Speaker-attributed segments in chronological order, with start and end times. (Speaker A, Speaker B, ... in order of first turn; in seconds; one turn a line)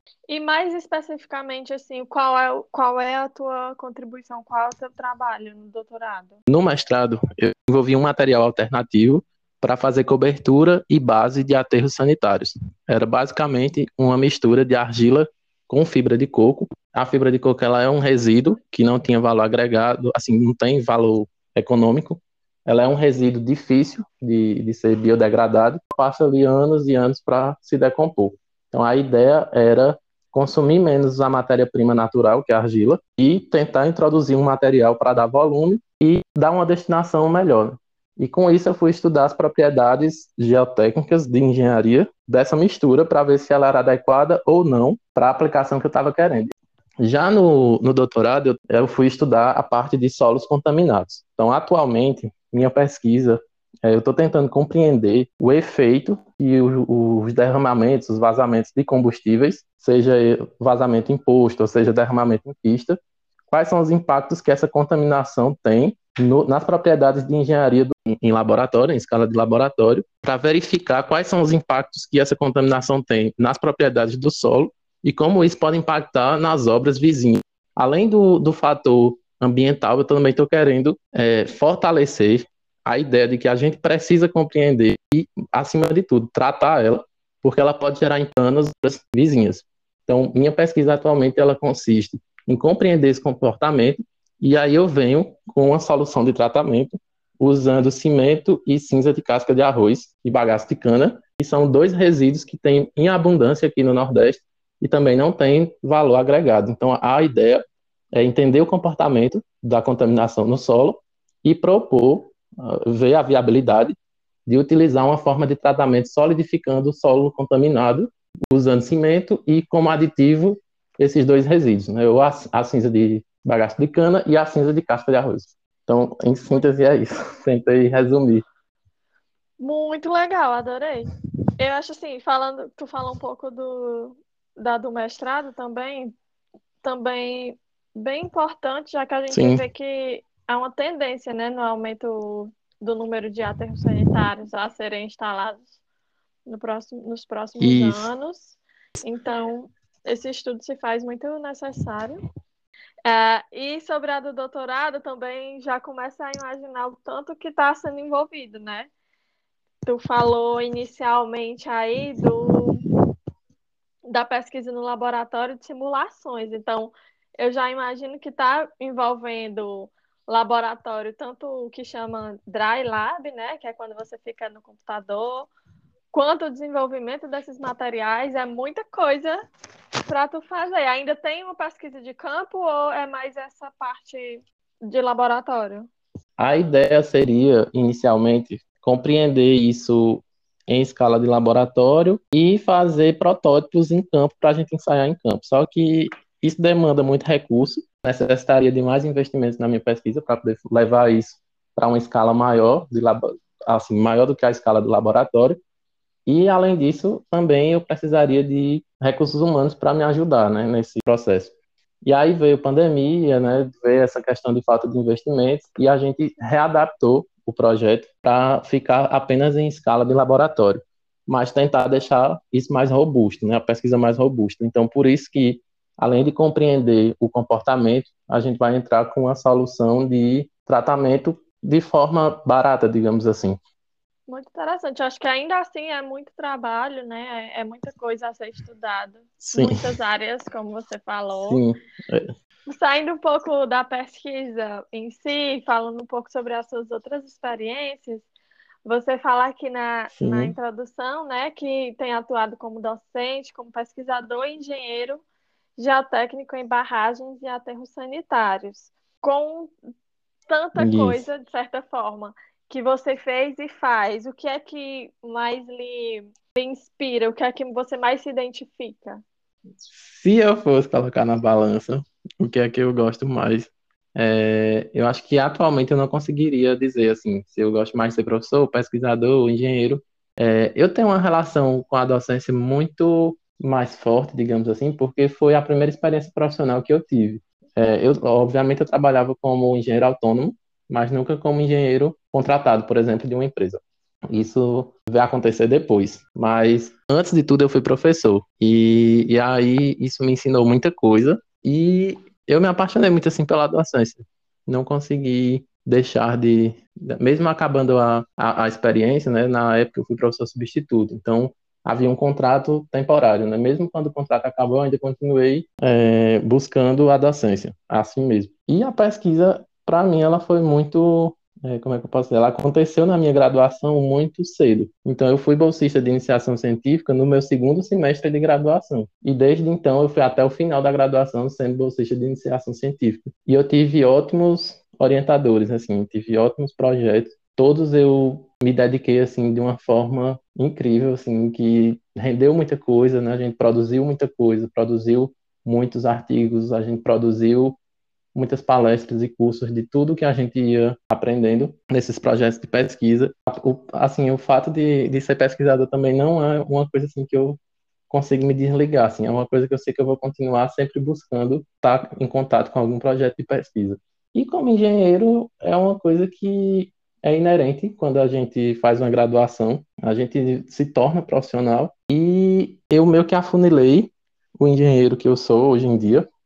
Speaker A: 0.3-6.4
Speaker B: 6.5-63.0
Speaker B: 63.5-107.6
Speaker B: 108.1-113.9
Speaker B: 114.5-128.4
Speaker A: 129.6-136.1
Speaker A: 136.8-145.8
Speaker B: 139.3-139.6
Speaker A: 146.4-152.2
Speaker B: 147.6-148.1
Speaker A: 153.1-158.9
Speaker A: 159.8-162.8
Speaker A: 164.1-175.5
Speaker A: 176.1-179.4
Speaker A: 180.1-185.9
Speaker B: 186.4-205.6
Speaker B: 206.2-211.5
Speaker B: 212.0-233.6
Speaker A: 234.3-241.6
Speaker B: 239.5-239.8
Speaker B: 241.4-242.3
Speaker A: 242.7-248.3
Speaker A: 248.8-255.2
Speaker B: 250.1-250.5
Speaker A: 255.8-259.7
Speaker A: 260.5-269.2
Speaker B: 260.8-261.3
Speaker B: 269.9-347.8
Speaker B: 348.3-357.6
Speaker B: 358.1-376.2